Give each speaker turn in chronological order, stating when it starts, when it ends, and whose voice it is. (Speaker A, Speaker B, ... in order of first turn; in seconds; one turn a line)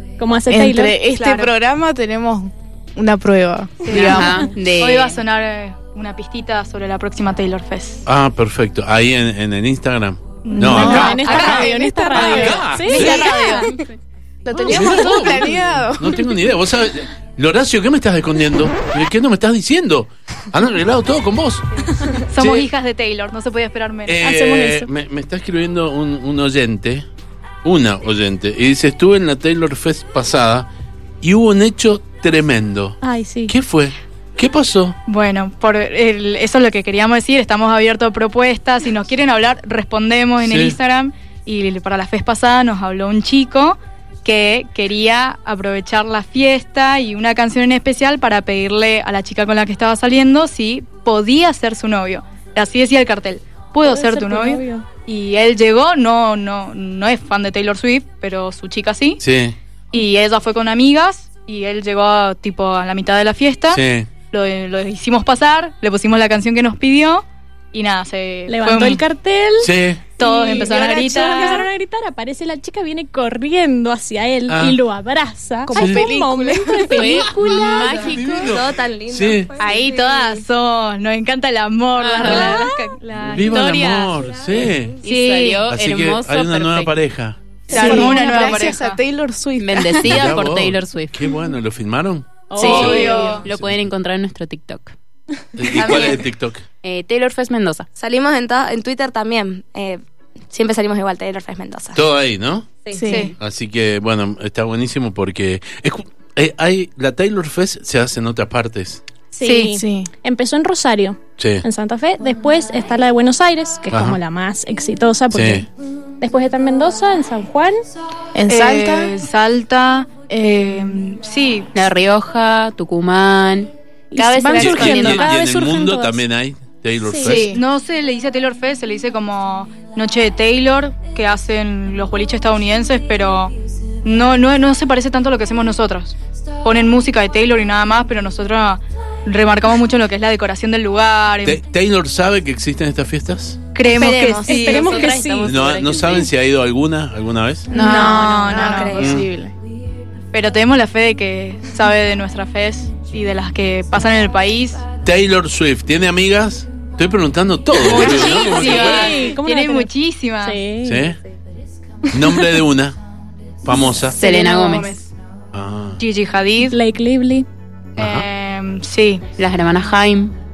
Speaker A: 0.2-1.0
Speaker B: 0.5-4.5
Speaker C: 1.1-1.5
Speaker C: 3.8-8.0
Speaker D: 3.9-5.2
Speaker E: 8.0-13.4
Speaker C: 10.4-13.7
Speaker A: 10.6-13.6
Speaker B: 10.6-13.6
Speaker B: 14.4-16.4
Speaker E: 14.5-22.7
Speaker C: 22.2-24.2
Speaker E: 24.1-27.1
Speaker A: 24.2-24.9
Speaker E: 27.6-30.7
Speaker E: 31.2-35.0
Speaker A: 33.0-33.5
Speaker C: 35.1-59.2
Speaker E: 40.4-40.8
Speaker A: 53.8-54.9
Speaker E: 59.2-59.5
Speaker C: 59.9-69.0
Speaker E: 63.7-64.1
Speaker A: 68.5-69.7
Speaker E: 69.6-70.0
Speaker C: 70.2-71.7
Speaker F: 70.2-71.6
Speaker A: 70.3-78.0
Speaker E: 74.5-74.8
Speaker B: 75.7-77.3
Speaker E: 75.8-76.0
Speaker D: 76.9-78.5
Speaker E: 77.5-79.5
Speaker F: 78.2-80.4
Speaker C: 79.6-84.1
Speaker D: 82.1-82.5
Speaker A: 82.2-82.6
Speaker E: 83.2-85.0
Speaker F: 83.6-84.9
Speaker D: 85.0-86.9
Speaker C: 85.0-85.6
Speaker E: 85.7-87.4
Speaker C: 87.7-89.0
Speaker B: 87.7-90.2
Speaker A: 87.7-88.2
Speaker D: 89.6-91.3
Speaker E: 90.0-93.8
Speaker A: 92.5-93.2
Speaker D: 92.5-95.0
Speaker C: 92.5-93.5
Speaker B: 92.6-93.4
Speaker E: 95.5-96.7
Speaker F: 95.7-96.2
Speaker D: 96.8-97.9
Speaker F: 98.0-102.0
Speaker E: 101.9-102.8
Speaker B: 102.9-103.3
Speaker C: 103.0-103.3
Speaker E: 103.4-109.0
Speaker A: 109.3-117.8
Speaker C: 109.4-109.8
Speaker B: 109.8-110.1
Speaker E: 111.4-111.6
Speaker E: 113.9-114.2
Speaker E: 115.3-115.6
Speaker B: 118.3-119.1
Speaker C: 118.5-121.7
Speaker B: 120.3-120.9
Speaker D: 121.7-125.3
Speaker A: 124.1-126.2
Speaker E: 124.5-127.6
Speaker A: 127.0-127.4
Speaker C: 127.2-141.6
Speaker B: 127.2-127.6
Speaker E: 141.4-143.6
Speaker C: 143.7-145.2
Speaker F: 143.8-146.3
Speaker A: 144.4-145.7
Speaker E: 145.4-147.7
Speaker C: 147.7-149.1
Speaker B: 147.7-149.5
Speaker F: 147.8-149.2
Speaker A: 147.9-148.2
Speaker E: 149.0-149.2
Speaker C: 150.3-154.8
Speaker E: 155.0-159.2
Speaker C: 157.8-160.6
Speaker A: 158.0-159.9
Speaker A: 160.4-161.1
Speaker E: 160.8-161.2
Speaker E: 162.1-163.0
Speaker A: 162.2-162.6
Speaker E: 163.6-164.2
Speaker C: 164.1-165.1
Speaker D: 164.1-165.0
Speaker E: 165.5-166.0
Speaker C: 166.0-166.8
Speaker A: 166.6-167.5
Speaker E: 167.9-168.2
Speaker C: 168.0-169.2
Speaker D: 169.4-170.3